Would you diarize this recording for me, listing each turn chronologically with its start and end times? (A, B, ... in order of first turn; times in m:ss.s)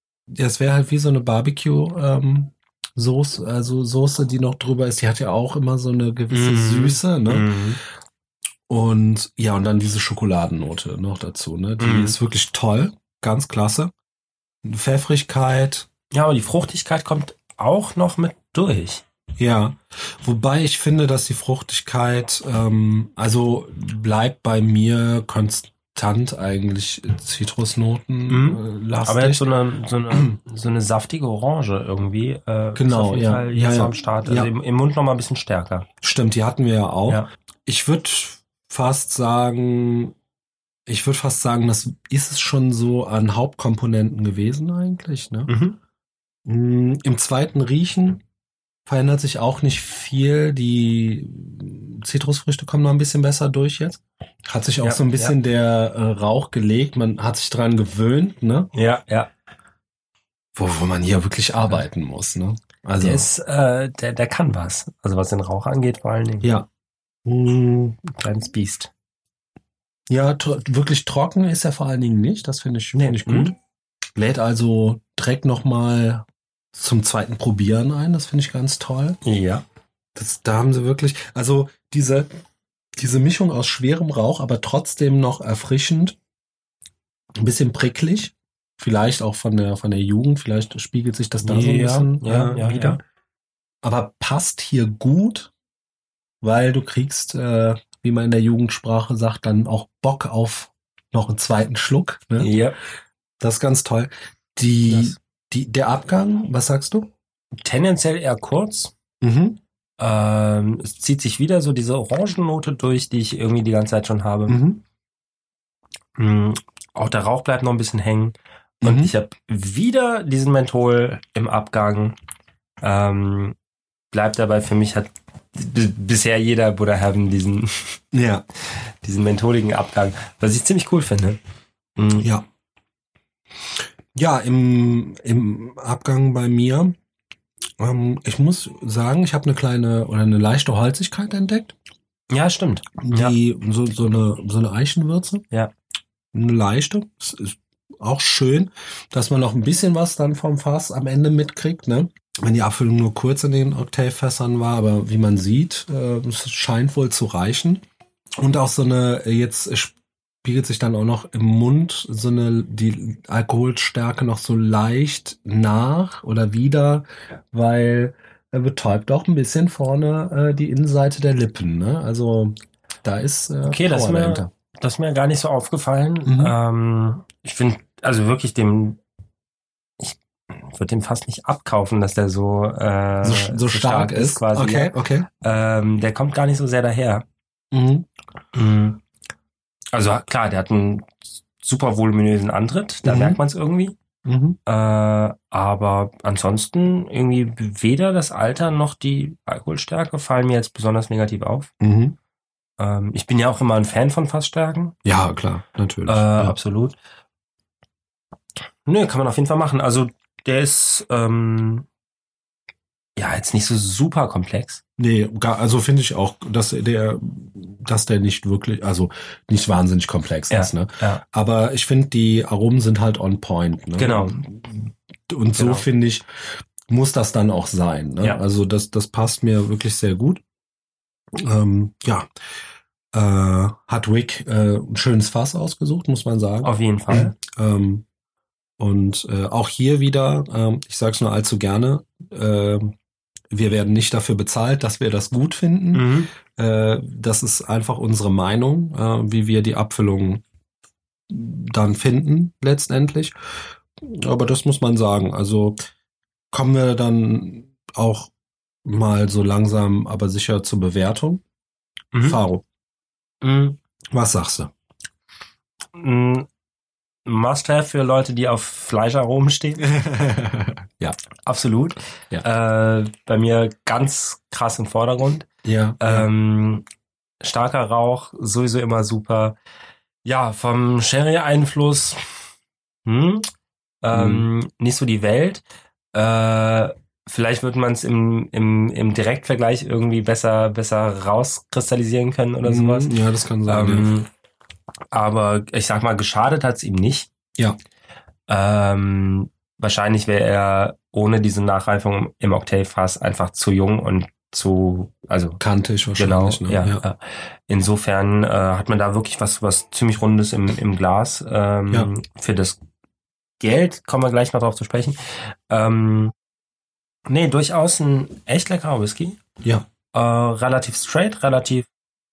0:00.3-0:07.5 A
0:06.3-0:07.8 B
0:08.7-0:13.9 A
0:11.8-0:12.2 B
0:14.6-0:15.9 A
0:16.1-0:19.0 B
0:19.4-0:29.5 A
0:28.3-0:35.9 B
0:32.8-0:34.5 A
0:36.0-0:40.1 A
0:40.9-0:45.5 A
0:45.5-0:45.8 B
0:46.4-0:48.2 A
0:48.9-0:58.7 A
0:54.8-0:55.4 B
0:58.7-0:59.3 B
1:00.5-1:03.3 A
1:03.0-1:06.5 B
1:07.2-1:08.0 A
1:08.1-1:08.9 B
1:10.1-1:13.6 A
1:12.9-1:13.5 B
1:14.1-1:19.2 A
1:19.2-1:19.6 B
1:20.1-1:22.3 A
1:23.0-1:26.2 A
1:27.4-1:33.0 A
1:31.4-1:33.0 B
1:33.8-1:35.5 A
1:36.4-1:42.5 A
1:42.4-1:42.8 B
1:43.4-1:47.1 A
1:44.9-1:45.2 B
1:47.6-1:48.9 B
1:49.2-1:49.6 A
1:50.0-1:54.6 B
1:54.5-1:54.8 A
1:56.2-2:02.2 B
1:58.8-1:59.1 A
2:02.8-2:03.6 B
2:04.1-2:08.0 B
2:08.1-2:08.4 A
2:08.7-2:11.4 B
2:12.0-2:12.3 B
2:12.2-2:12.4 A
2:14.2-2:16.9 A
2:17.8-2:21.7 A
2:22.3-2:23.4 B
2:23.0-2:25.4 A
2:26.3-2:37.8 A
2:38.4-2:54.5 A
2:53.6-2:59.0 B
2:56.2-2:56.6 A
3:00.0-3:07.2 B
3:03.2-3:05.3 A
3:07.7-3:08.1 A
3:08.5-3:09.0 B
3:09.9-3:14.0 B
3:13.0-3:13.4 A
3:14.2-3:14.6 A
3:14.6-3:21.7 B
3:21.8-3:22.2 A
3:22.8-3:25.0 B
3:25.0-3:26.6 A
3:26.1-3:27.0 B
3:28.8-3:31.9 B
3:33.2-3:34.8 B
3:35.0-3:50.4 A
3:40.5-3:41.2 B
3:44.0-3:44.4 B
3:45.5-3:45.9 B
3:51.4-3:52.3 A
3:53.1-3:58.0 A
3:56.6-3:57.3 B
3:58.8-4:03.0 A
4:03.5-4:10.4 A
4:05.9-4:06.3 B
4:11.3-4:13.3 A
4:14.0-4:15.8 A
4:16.5-4:18.3 A
4:18.8-4:21.4 A
4:22.1-4:22.4 B
4:22.2-4:22.6 A
4:23.4-4:23.8 B
4:24.1-4:24.7 A
4:26.0-4:26.5 B
4:27.2-4:29.8 B
4:29.8-4:31.2 A
4:31.4-4:35.5 B
4:35.6-4:36.3 A
4:36.0-4:36.8 B
4:37.4-4:39.6 B
4:40.2-4:42.4 B
4:43.0-4:43.5 B
4:44.0-4:45.6 B
4:44.1-4:44.5 A
4:46.1-4:53.1 B
4:52.6-4:54.1 A
4:53.7-4:54.3 B
4:55.1-4:57.3 B
4:58.5-5:05.6 B
5:05.6-5:07.0 A
5:06.2-5:12.8 B
5:13.6-5:16.3 B
5:17.3-5:19.4 B
5:19.6-5:19.9 A
5:20.1-5:21.9 B